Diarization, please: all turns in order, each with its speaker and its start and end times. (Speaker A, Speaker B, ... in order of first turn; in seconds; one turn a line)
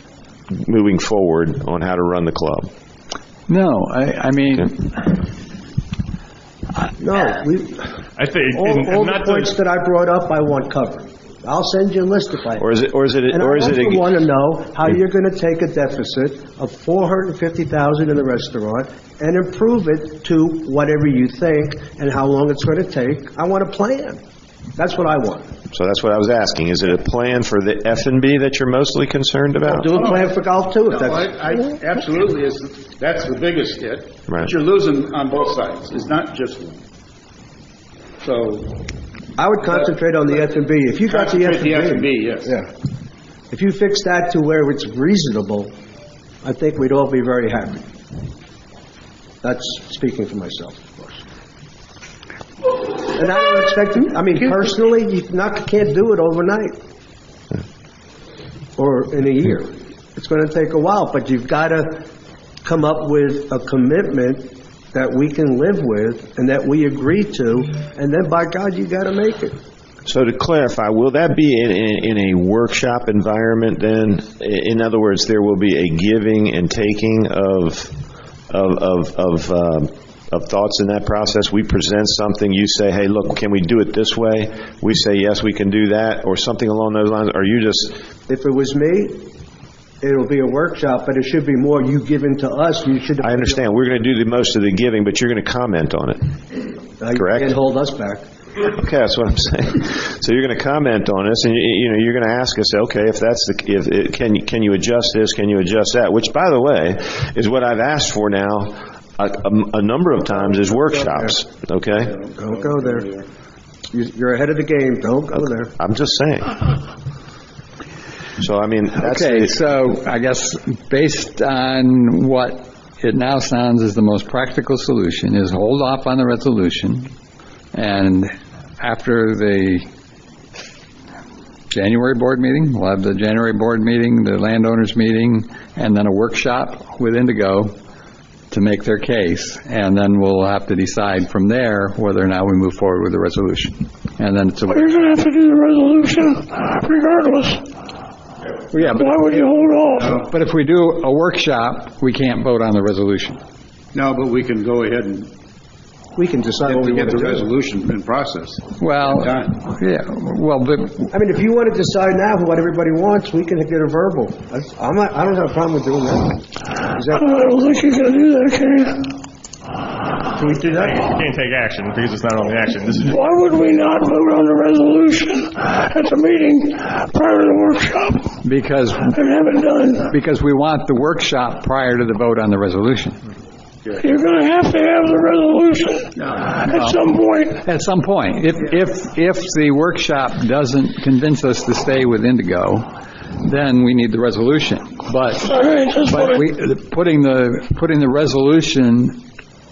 Speaker A: 0.6-2.7
Speaker B: 3.5-5.2
Speaker C: 7.0-7.9
Speaker D: 8.2-9.5
Speaker C: 8.5-12.6
Speaker A: 12.6-14.1
Speaker C: 13.3-24.2
Speaker C: 24.8-25.5
Speaker A: 25.7-29.9
Speaker C: 29.7-31.3
Speaker E: 30.9-36.8
Speaker E: 38.2-38.9
Speaker C: 39.4-42.7
Speaker E: 39.6-40.0
Speaker E: 41.0-42.6
Speaker C: 43.5-45.7
Speaker C: 46.4-47.9
Speaker C: 49.4-51.2
Speaker C: 53.1-56.8
Speaker C: 58.8-62.0
Speaker C: 62.6-69.5
Speaker A: 70.0-77.9
Speaker A: 78.5-88.0
Speaker C: 88.3-89.2
Speaker C: 90.0-93.7
Speaker A: 93.2-96.3
Speaker C: 97.0-98.2
Speaker A: 97.1-97.5
Speaker A: 98.6-112.1
Speaker C: 110.6-111.3
Speaker E: 112.0-113.2
Speaker C: 112.4-113.1
Speaker C: 113.9-115.7
Speaker A: 115.3-116.7
Speaker A: 118.4-119.5
Speaker B: 119.0-127.1
Speaker B: 127.7-129.8
Speaker B: 131.7-137.7
Speaker B: 138.5-144.9
Speaker F: 144.7-147.7
Speaker B: 148.7-149.5
Speaker F: 148.8-150.2
Speaker B: 150.0-153.4
Speaker E: 150.0-150.3
Speaker E: 153.9-155.3
Speaker C: 156.2-157.5
Speaker E: 156.6-159.6
Speaker B: 158.8-161.1
Speaker C: 161.1-167.3
Speaker F: 167.1-169.1
Speaker C: 170.4-171.0
Speaker D: 170.4-173.2
Speaker F: 173.1-178.4
Speaker B: 178.4-179.2
Speaker F: 179.1-180.1
Speaker B: 180.0-183.2
Speaker F: 184.0-187.6
Speaker E: 186.2-186.6
Speaker B: 186.6-187.0
Speaker B: 187.6-192.9
Speaker B: 193.4-195.5
Speaker F: 195.4-196.4
Speaker B: 196.0-199.2